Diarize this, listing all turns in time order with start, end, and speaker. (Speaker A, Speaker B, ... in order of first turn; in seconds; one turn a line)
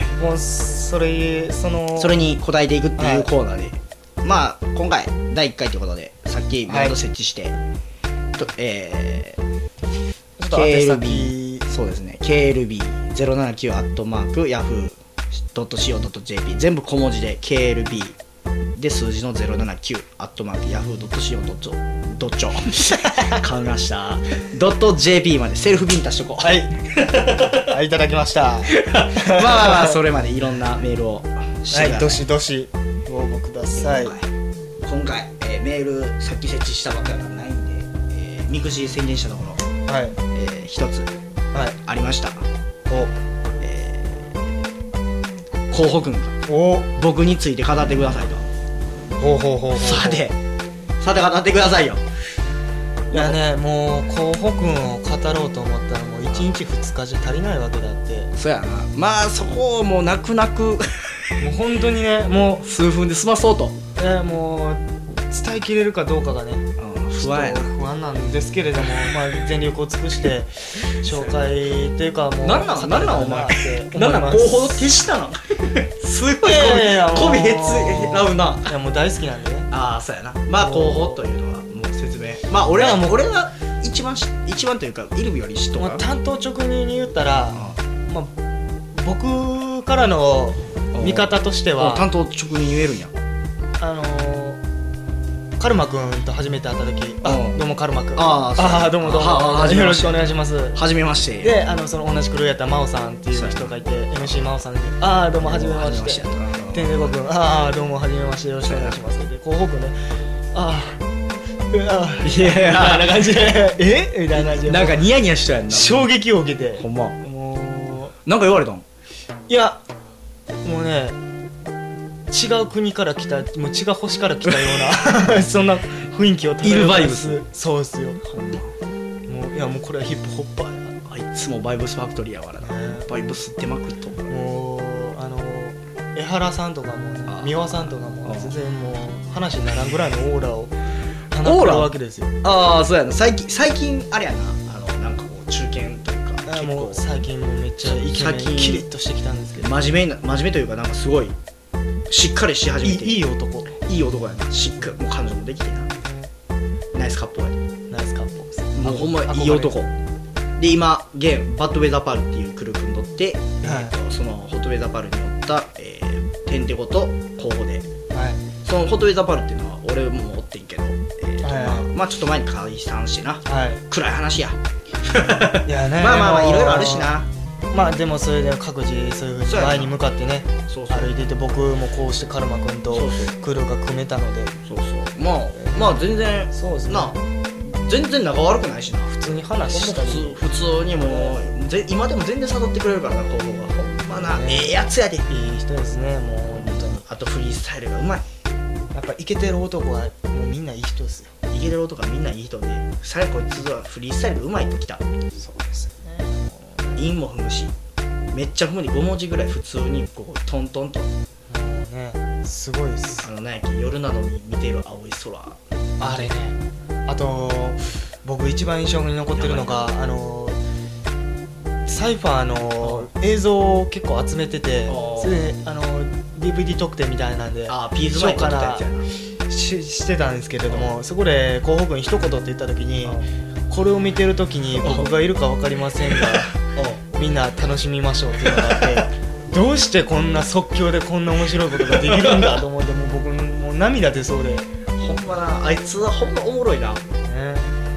Speaker A: 0.2-2.2
Speaker B: 1.9-7.6
Speaker A: 3.0-3.3
Speaker A: 6.7-7.0
Speaker B: 8.3-9.4
Speaker A: 10.4-11.7
Speaker B: 10.5-15.0
Speaker B: 15.5-18.2
Speaker B: 18.8-27.7
Speaker A: 23.1-23.4
Speaker A: 26.4-26.7
Speaker A: 27.5-30.0
Speaker B: 28.7-32.2
Speaker A: 31.7-34.1
Speaker B: 33.8-34.3
Speaker B: 34.8-39.6
Speaker A: 39.9-40.2
Speaker B: 40.3-41.1
Speaker B: 41.8-42.4
Speaker A: 42.9-43.1
Speaker B: 43.6-44.4
Speaker B: 45.7-46.4
Speaker A: 46.5-46.9
Speaker B: 46.9-48.5
Speaker A: 49.2-50.3
Speaker B: 49.7-50.4
Speaker B: 51.0-52.0
Speaker B: 53.1-53.4
Speaker A: 53.1-58.3
Speaker B: 56.2-56.6
Speaker B: 58.3-61.2
Speaker A: 61.4-62.6
Speaker B: 62.6-63.8
Speaker A: 64.0-74.9
Speaker B: 66.8-67.7
Speaker B: 68.8-69.2
Speaker B: 71.0-71.5
Speaker B: 72.4-78.7
Speaker A: 76.4-79.7
Speaker B: 79.7-86.0
Speaker A: 80.6-81.2
Speaker A: 82.7-83.1
Speaker A: 85.8-88.3
Speaker B: 87.5-87.8
Speaker A: 88.9-92.0
Speaker B: 90.9-93.1
Speaker A: 93.8-94.6
Speaker A: 95.6-100.8
Speaker B: 97.2-97.6
Speaker B: 98.1-101.6
Speaker A: 101.4-110.0
Speaker B: 103.3-104.5
Speaker B: 105.4-107.1
Speaker B: 108.6-109.0
Speaker A: 110.5-111.0
Speaker A: 111.7-115.1
Speaker B: 112.2-113.3
Speaker B: 114.3-116.1
Speaker A: 115.7-118.1
Speaker B: 116.7-117.2
Speaker B: 118.2-118.8
Speaker A: 119.5-119.8
Speaker A: 120.6-121.2
Speaker A: 122.3-128.2
Speaker B: 124.5-125.1
Speaker B: 126.6-127.4
Speaker B: 128.2-128.7
Speaker A: 129.3-130.9
Speaker B: 131.1-134.3
Speaker A: 132.6-133.3
Speaker A: 134.3-140.7
Speaker B: 137.3-138.5
Speaker A: 141.3-142.3
Speaker B: 141.4-147.0
Speaker A: 146.4-149.7
Speaker B: 147.8-148.9
Speaker B: 149.6-151.3
Speaker B: 152.1-153.2
Speaker A: 152.8-153.8
Speaker B: 153.8-155.9
Speaker A: 156.0-156.3
Speaker B: 156.9-157.6
Speaker A: 157.9-159.9
Speaker B: 158.7-159.9
Speaker B: 160.6-167.9
Speaker A: 163.6-163.9
Speaker A: 168.1-168.4
Speaker B: 168.6-177.3
Speaker A: 171.4-171.8
Speaker A: 173.4-173.8
Speaker A: 175.3-177.1
Speaker A: 177.7-184.6
Speaker B: 179.4-179.9
Speaker B: 180.7-181.2
Speaker B: 182.9-183.3
Speaker B: 184.6-195.3
Speaker A: 185.5-187.2
Speaker A: 189.1-190.4
Speaker A: 191.0-191.4
Speaker A: 194.3-194.8
Speaker A: 195.3-197.0
Speaker B: 196.5-198.2
Speaker A: 198.9-201.3
Speaker B: 201.5-205.0
Speaker A: 205.3-207.1
Speaker B: 206.9-207.7
Speaker B: 208.3-211.1
Speaker A: 211.5-213.3
Speaker B: 213.2-215.6
Speaker A: 216.0-220.6
Speaker B: 219.3-219.9
Speaker A: 221.8-228.9
Speaker B: 222.8-223.1
Speaker B: 224.8-225.5
Speaker B: 227.7-229.1
Speaker A: 229.5-236.5
Speaker B: 234.8-235.3
Speaker B: 236.0-237.0
Speaker A: 237.1-244.7
Speaker B: 238.4-239.1
Speaker B: 241.7-242.6
Speaker B: 245.0-247.0
Speaker A: 247.2-247.7